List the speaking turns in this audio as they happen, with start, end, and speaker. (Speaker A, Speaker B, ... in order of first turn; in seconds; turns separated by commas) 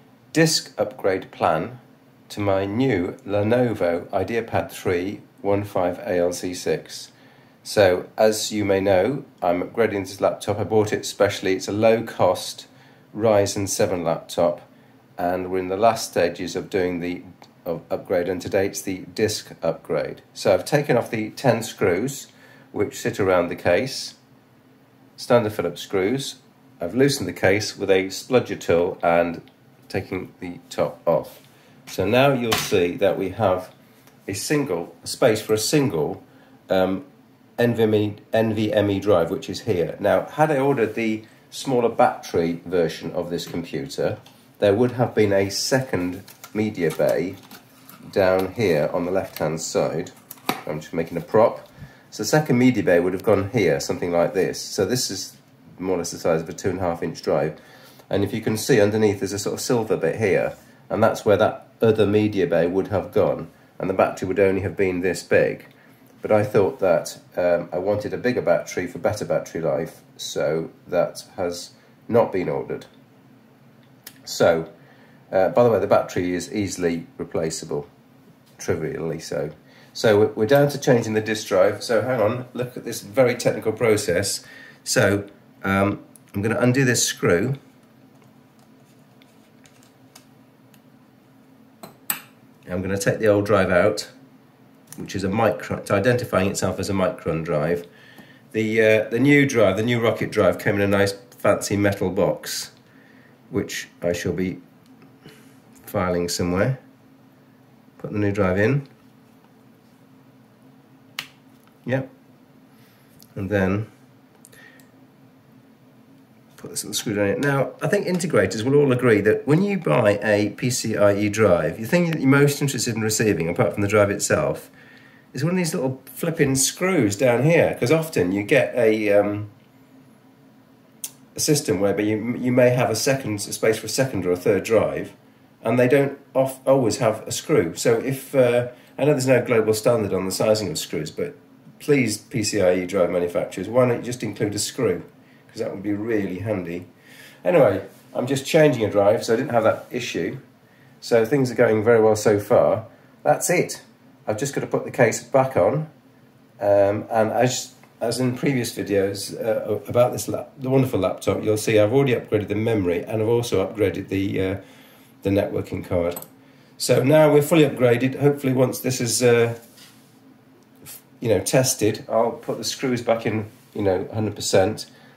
Speaker A: 0.3-1.8, Speaker A: 2.3-7.1, Speaker A: 7.6-24.1, Speaker A: 25.2-33.7, Speaker A: 34.3-37.0, Speaker A: 37.6-47.4, Speaker A: 48.1-50.1, Speaker A: 50.6-57.5, Speaker A: 58.1-65.7, Speaker A: 66.2-72.8, Speaker A: 74.2-74.7, Speaker A: 75.3-77.9, Speaker A: 78.6-87.6, Speaker A: 92.7-94.1, Speaker A: 95.0-97.8, Speaker A: 98.5-102.7, Speaker A: 103.5-104.6, Speaker A: 105.8-106.8, Speaker A: 108.0-108.8, Speaker A: 113.3-113.9, Speaker A: 116.6-124.7, Speaker A: 125.3-129.5, Speaker A: 131.3-146.8, Speaker A: 147.4-150.4, Speaker A: 151.0-155.9, Speaker A: 156.6-164.6, Speaker A: 165.2-166.2, Speaker A: 166.8-169.6, Speaker A: 171.2-174.9